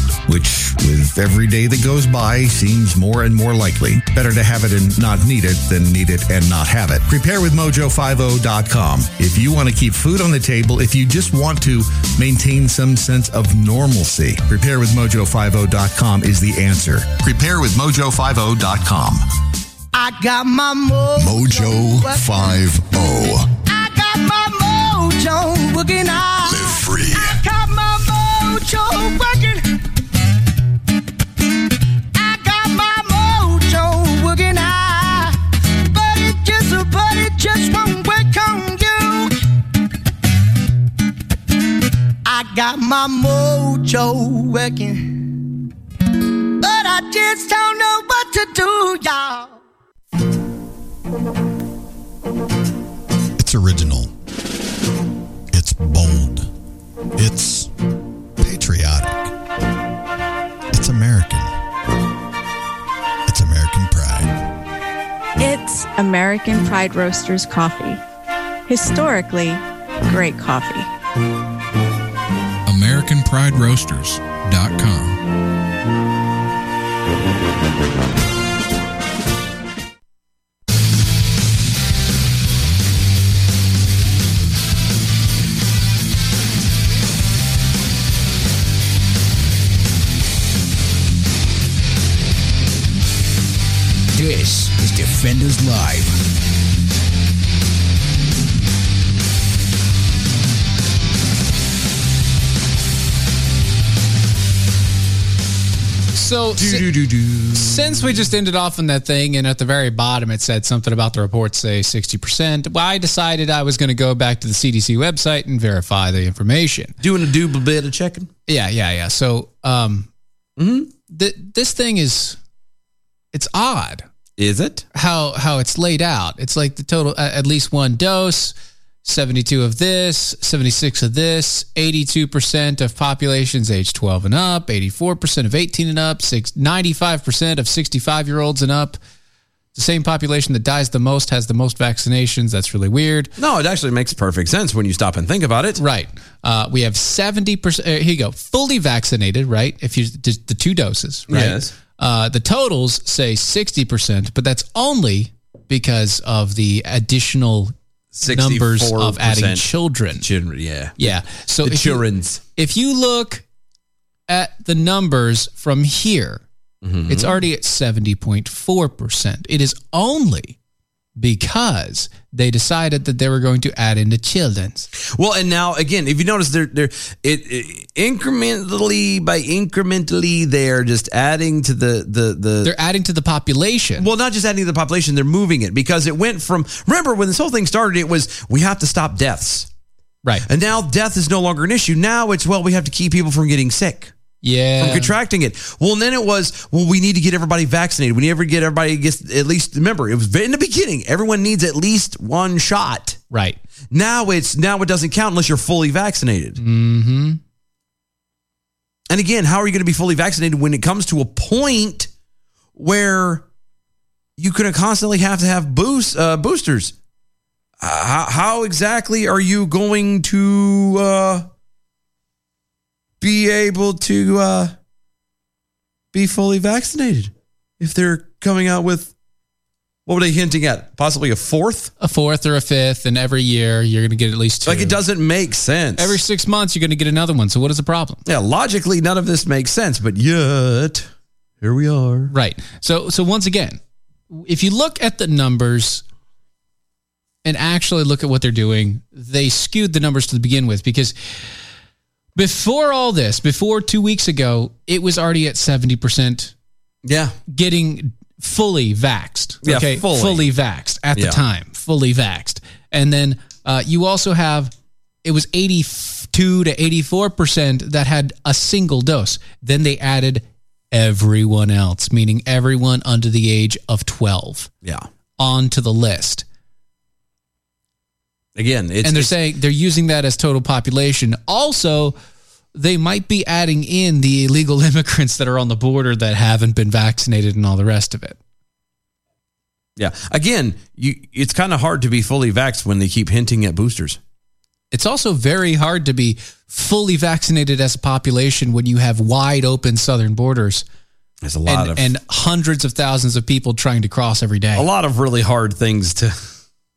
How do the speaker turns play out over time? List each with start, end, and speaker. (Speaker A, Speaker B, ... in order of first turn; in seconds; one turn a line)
Speaker A: 0.3-19.2
Speaker B: 19.9-22.5
Speaker B: 23.6-29.6
Speaker B: 32.1-39.4
Speaker B: 42.2-45.4
Speaker B: 46.6-49.6
Speaker A: 53.4-54.0
Speaker A: 55.5-56.4
Speaker A: 57.2-57.7
Speaker A: 58.4-59.2
Speaker A: 60.7-61.4
Speaker A: 63.3-64.3
Speaker C: 65.4-68.0
Speaker C: 68.7-70.9
Speaker D: 72.7-75.2
Speaker E: 94.1-96.2
Speaker F: 106.1-106.9
Speaker G: 106.6-108.3
Speaker F: 107.5-117.0
Speaker G: 117.0-118.3
Speaker F: 118.5-120.1
Speaker G: 120.6-120.9
Speaker F: 121.1-122.4
Speaker F: 123.3-124.0
Speaker G: 124.4-124.8
Speaker F: 124.9-139.0
Speaker F: 139.8-143.3
Speaker G: 143.4-145.8
Speaker F: 145.8-157.7
Speaker G: 151.3-151.7
Speaker G: 158.1-159.7
Speaker F: 158.2-160.3
Speaker G: 160.2-161.1
Speaker F: 161.0-163.4
Speaker G: 161.6-162.4
Speaker F: 164.3-166.4
Speaker G: 166.8-167.4
Speaker F: 167.1-170.6
Speaker F: 171.2-174.9
Speaker G: 175.0-182.7
Speaker F: 182.6-184.1
Speaker G: 184.0-189.7
Speaker G: 190.4-194.1
Speaker F: 194.4-195.1
Speaker G: 194.8-203.2
Speaker F: 203.3-203.6
Speaker G: 203.9-206.6
Speaker F: 206.6-207.4
Speaker G: 209.1-212.1
Speaker G: 212.8-213.5
Speaker G: 214.4-216.9
Speaker G: 217.8-221.5
Speaker G: 223.2-224.8
Speaker G: 226.1-229.1
Speaker G: 230.1-231.9
Speaker F: 232.0-235.0
Speaker G: 234.7-236.2
Speaker F: 236.0-238.2
Speaker G: 238.2-241.1
Speaker G: 241.6-242.3
Speaker F: 242.3-243.8
Speaker F: 244.3-246.0
Speaker F: 247.4-251.2
Speaker F: 252.4-256.5
Speaker G: 257.0-257.4
Speaker F: 257.5-264.7
Speaker G: 259.6-260.5
Speaker G: 261.1-261.4
Speaker F: 265.2-274.7
Speaker F: 275.4-276.4
Speaker G: 278.6-279.4
Speaker F: 279.0-282.2
Speaker F: 282.7-288.4
Speaker G: 290.0-294.2
Speaker F: 294.9-300.9
Speaker G: 301.4-302.1
Speaker F: 301.7-304.9
Speaker G: 304.8-306.4